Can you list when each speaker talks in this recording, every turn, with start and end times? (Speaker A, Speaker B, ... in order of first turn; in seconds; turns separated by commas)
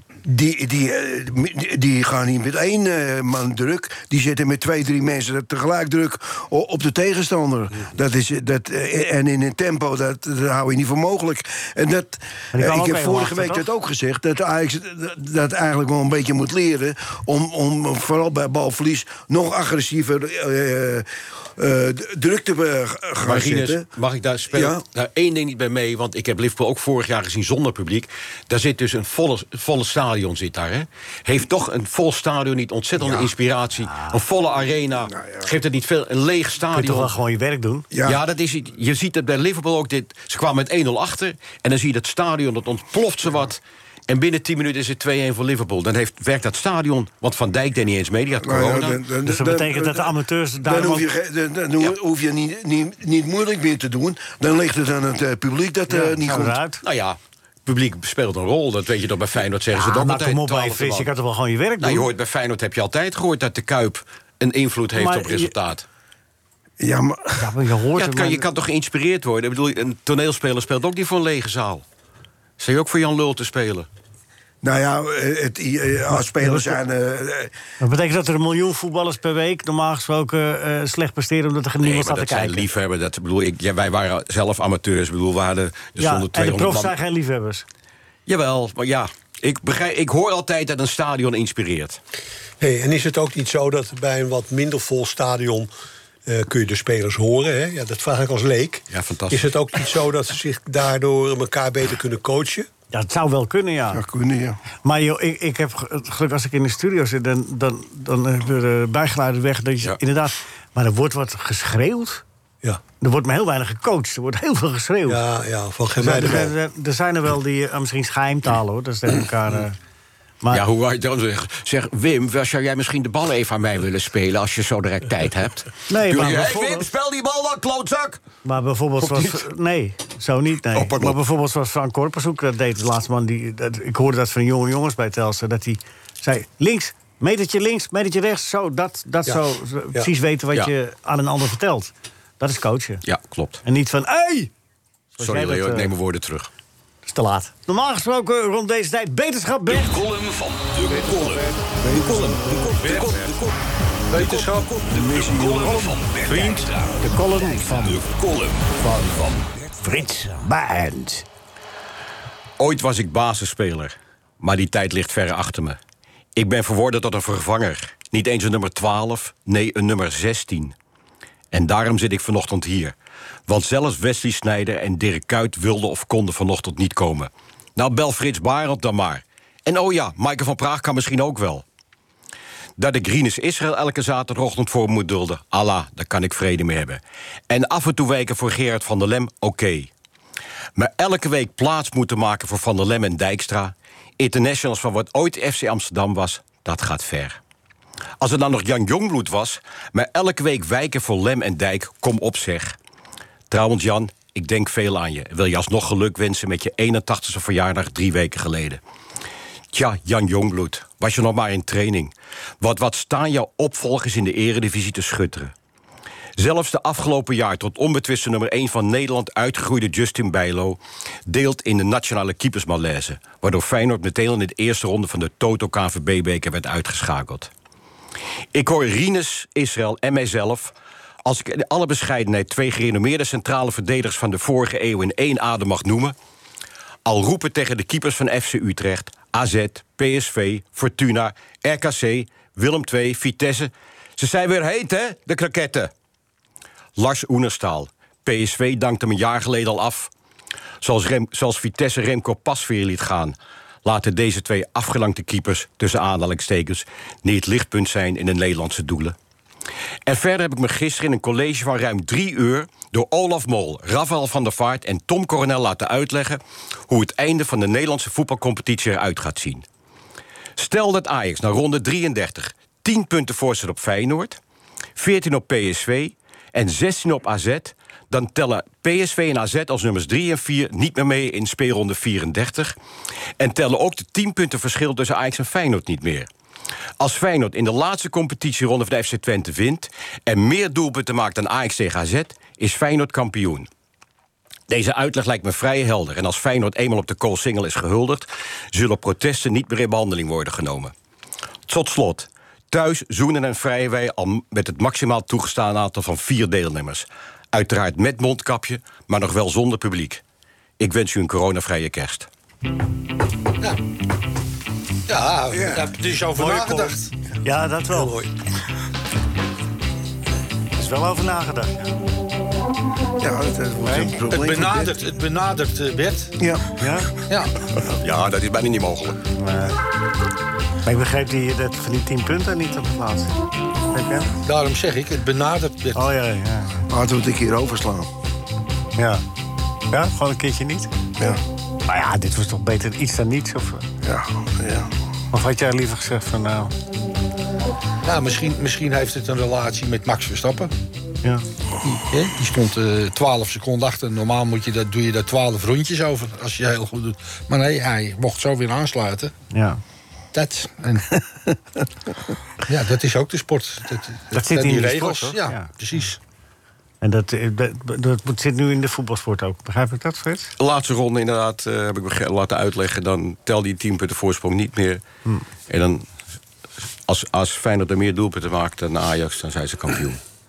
Speaker A: 0.2-23.8, Speaker B: 12.5-13.7, Speaker C: 23.2-37.1, Speaker A: 24.5-24.8, Speaker A: 33.0-33.3, Speaker B: 33.8-34.2, Speaker A: 35.1-35.4, Speaker B: 36.7-37.9, Speaker A: 37.9-38.2, Speaker C: 38.0-49.0, Speaker A: 48.4-56.6, Speaker B: 49.2-51.1, Speaker B: 55.9-56.8, Speaker C: 56.8-61.1, Speaker B: 59.7-62.1, Speaker C: 61.8-65.8, Speaker B: 65.0-65.5, Speaker A: 66.8-67.5, Speaker B: 67.4-68.4, Speaker C: 68.0-71.8, Speaker C: 72.6-73.9, Speaker A: 74.6-77.5, Speaker B: 76.4-76.8, Speaker B: 77.8-82.7, Speaker C: 81.8-86.9, Speaker B: 86.0-87.6, Speaker C: 88.3-92.0, Speaker D: 92.6-95.7, Speaker D: 96.2-102.7, Speaker C: 98.9-99.5, Speaker B: 102.9-104.0, Speaker A: 103.9-104.6, Speaker B: 104.8-112.2, Speaker B: 113.0-115.2, Speaker D: 115.0-116.5, Speaker B: 116.0-119.8, Speaker C: 120.5-128.2, Speaker B: 125.9-126.9, Speaker B: 128.4-143.0, Speaker C: 129.0-129.4, Speaker C: 130.7-131.2, Speaker C: 143.0-143.6, Speaker B: 143.6-144.5, Speaker B: 145.2-145.9, Speaker C: 145.2-146.5, Speaker B: 147.1-150.0, Speaker E: 149.7-153.5, Speaker F: 152.8-153.2, Speaker F: 154.1-156.7, Speaker E: 154.2-159.6, Speaker B: 157.0-158.0, Speaker B: 159.8-161.2, Speaker C: 162.6-165.8, Speaker C: 166.3-170.7, Speaker C: 171.5-172.9, Speaker C: 173.5-181.6, Speaker C: 182.8-189.9, Speaker C: 190.8-197.4, Speaker C: 198.2-202.8, Speaker C: 203.5-208.8, Speaker C: 209.7-215.5, Speaker C: 216.4-227.5, Speaker C: 228.5-230.7, Speaker C: 231.2-236.1, Speaker C: 237.1-245.9, Speaker C: 246.9-250.1, Speaker C: 250.8-259.1, Speaker C: 260.1-269.6, Speaker C: 270.6-274.4, Speaker C: 274.9-282.7, Speaker C: 283.4-286.3, Speaker C: 287.0-293.7, Speaker C: 294.7-300.9, Speaker C: 301.7-310.2, Speaker C: 310.8-312.3, Speaker F: 315.1-317.1, Speaker A: 315.5-315.9, Speaker D: 316.3-317.0, Speaker B: 317.4-318.1, Speaker D: 317.9-318.3, Speaker B: 320.8-322.0, Speaker A: 323.2-324.9, Speaker B: 323.8-324.1, Speaker F: 324.3-326.3, Speaker A: 326.4-326.7, Speaker B: 326.8-327.1, Speaker F: 327.3-327.5, Speaker C: 327.8-329.2, Speaker B: 329.3-329.8, Speaker B: 330.8-333.3, Speaker B: 333.9-334.3, Speaker F: 334.4-336.0, Speaker B: 335.9-336.9, Speaker A: 336.9-338.1, Speaker B: 339.0-339.2, Speaker B: 339.9-340.9, Speaker B: 341.9-343.9, Speaker A: 344.0-344.9, Speaker B: 345.3-346.7, Speaker F: 348.0-350.7, Speaker F: 351.8-359.3, Speaker B: 359.5-359.8, Speaker F: 360.3-361.2, Speaker F: 362.7-366.2, Speaker B: 364.3-365.7, Speaker B: 367.0-370.5, Speaker C: 370.6-375.0, Speaker C: 375.7-376.1, Speaker C: 377.1-380.2